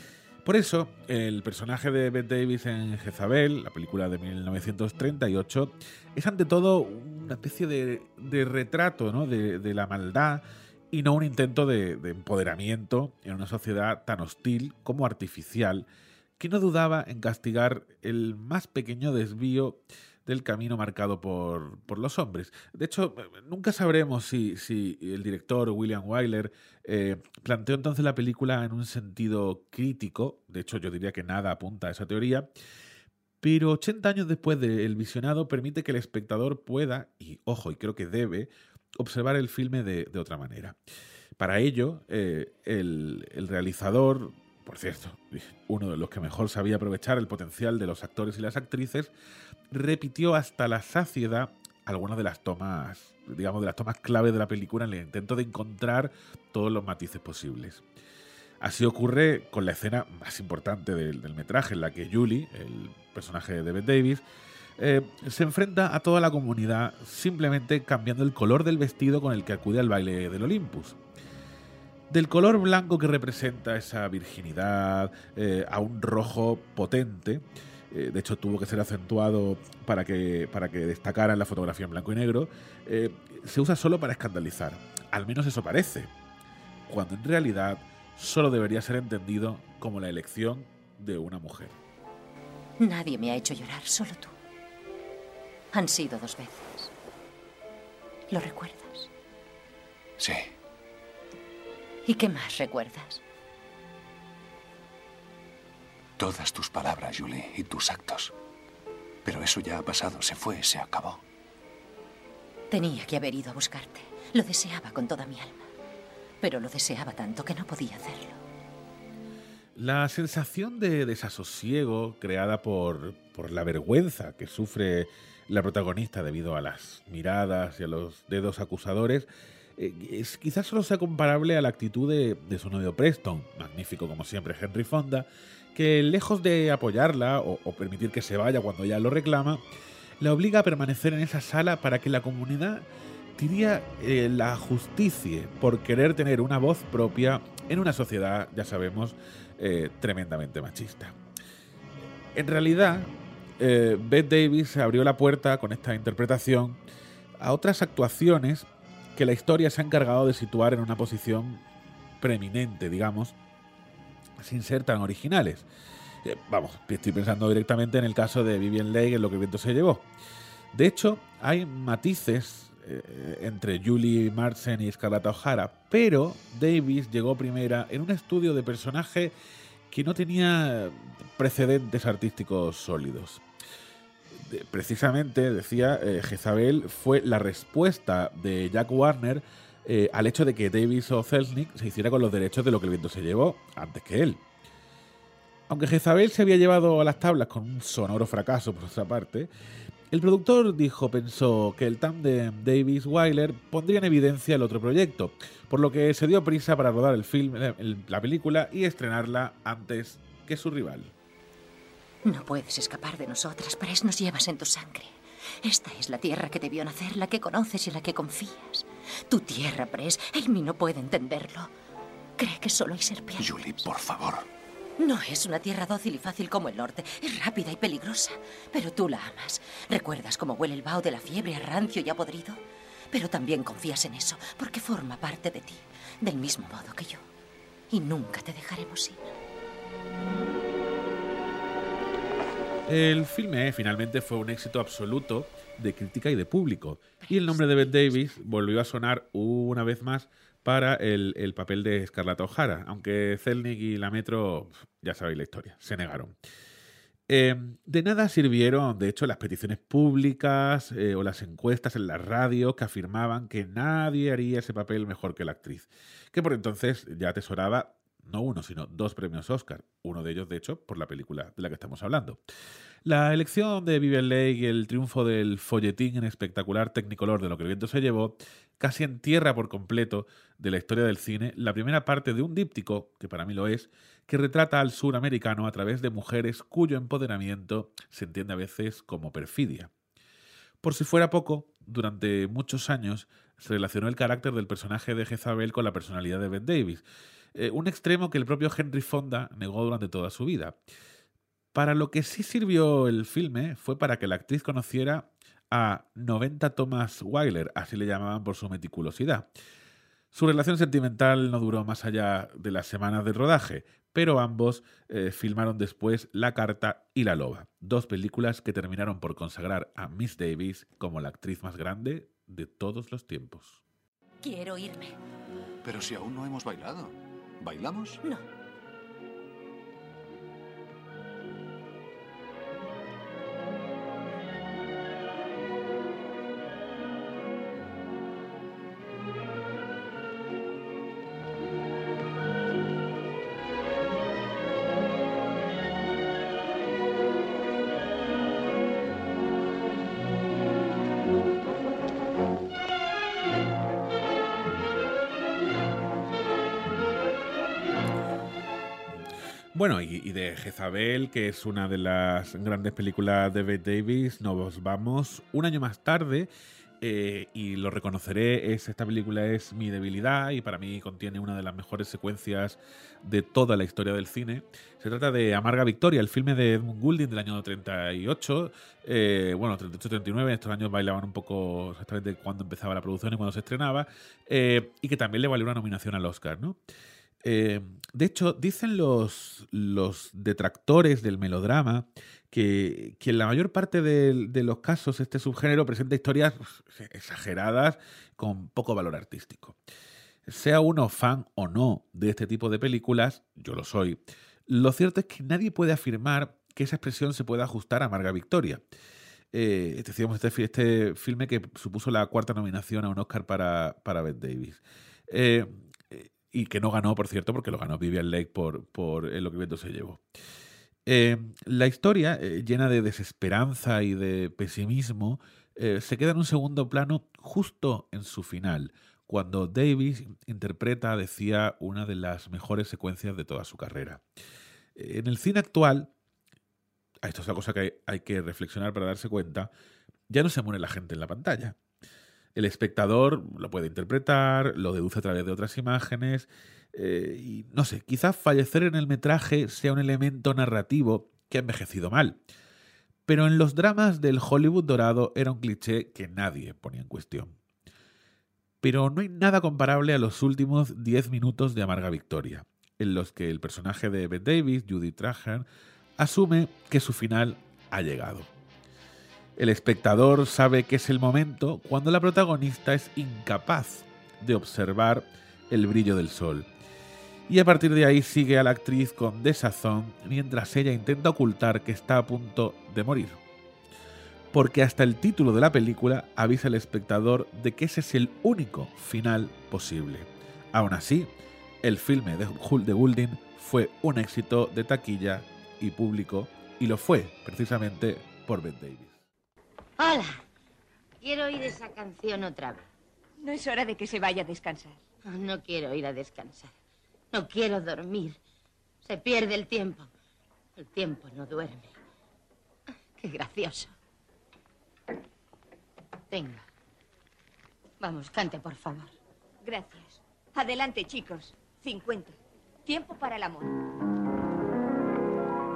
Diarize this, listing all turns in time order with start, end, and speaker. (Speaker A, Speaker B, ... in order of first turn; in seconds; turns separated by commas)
Speaker A: 0.4-15.9, Speaker A: 16.4-32.5, Speaker A: 33.4-40.8, Speaker A: 41.4-49.1, Speaker A: 49.7-57.8, Speaker A: 58.6-64.2, Speaker A: 64.8-71.0, Speaker A: 72.1-86.1, Speaker A: 86.9-91.8, Speaker B: 92.8-94.3, Speaker B: 95.7-96.9, Speaker B: 98.3-99.1, Speaker C: 100.2-100.5, Speaker B: 102.1-103.2, Speaker C: 106.2-108.3, Speaker C: 109.2-111.2, Speaker B: 112.7-115.7, Speaker B: 116.4-118.4, Speaker A: 119.8-139.6, Speaker A: 140.2-151.2, Speaker A: 152.4-156.8, Speaker A: 157.4-161.6, Speaker A: 162.2-163.4, Speaker A: 164.4-165.7, Speaker A: 166.2-170.1, Speaker A: 170.7-179.4, Speaker A: 179.9-183.4, Speaker A: 184.3-194.4, Speaker A: 195.7-199.5, Speaker A: 200.1-211.1, Speaker B: 212.2-221.7, Speaker B: 222.4-223.6, Speaker C: 223.4-224.5, Speaker B: 225.0-232.6, Speaker B: 233.1-237.2, Speaker B: 237.9-239.3, Speaker A: 242.9-256.3, Speaker B: 247.2-248.4, Speaker A: 257.3-272.4, Speaker A: 273.1-289.9, Speaker A: 290.8-297.0, Speaker A: 297.6-300.8, Speaker A: 301.7-309.5, Speaker A: 310.3-323.8, Speaker B: 324.4-325.1, Speaker C: 325.8-328.2, Speaker A: 359.7-366.5, Speaker A: 367.0-386.8, Speaker A: 387.4-399.8, Speaker A: 400.5-408.8, Speaker A: 409.5-420.2, Speaker A: 421.1-434.2, Speaker A: 435.0-436.1, Speaker A: 437.2-439.7, Speaker A: 440.3-441.8, Speaker A: 442.5-452.4, Speaker A: 453.3-457.5, Speaker A: 458.8-465.6, Speaker A: 466.2-468.5, Speaker A: 469.6-476.7, Speaker A: 477.5-483.4, Speaker A: 484.5-491.3, Speaker A: 491.8-499.2, Speaker D: 500.0-500.4, Speaker D: 501.2-502.9, Speaker E: 503.4-505.0, Speaker D: 505.3-506.7, Speaker D: 507.3-508.4, Speaker D: 509.0-510.1, Speaker D: 510.8-511.9, Speaker D: 513.2-513.9, Speaker D: 516.3-516.6, Speaker D: 518.0-519.1, Speaker E: 519.6-523.8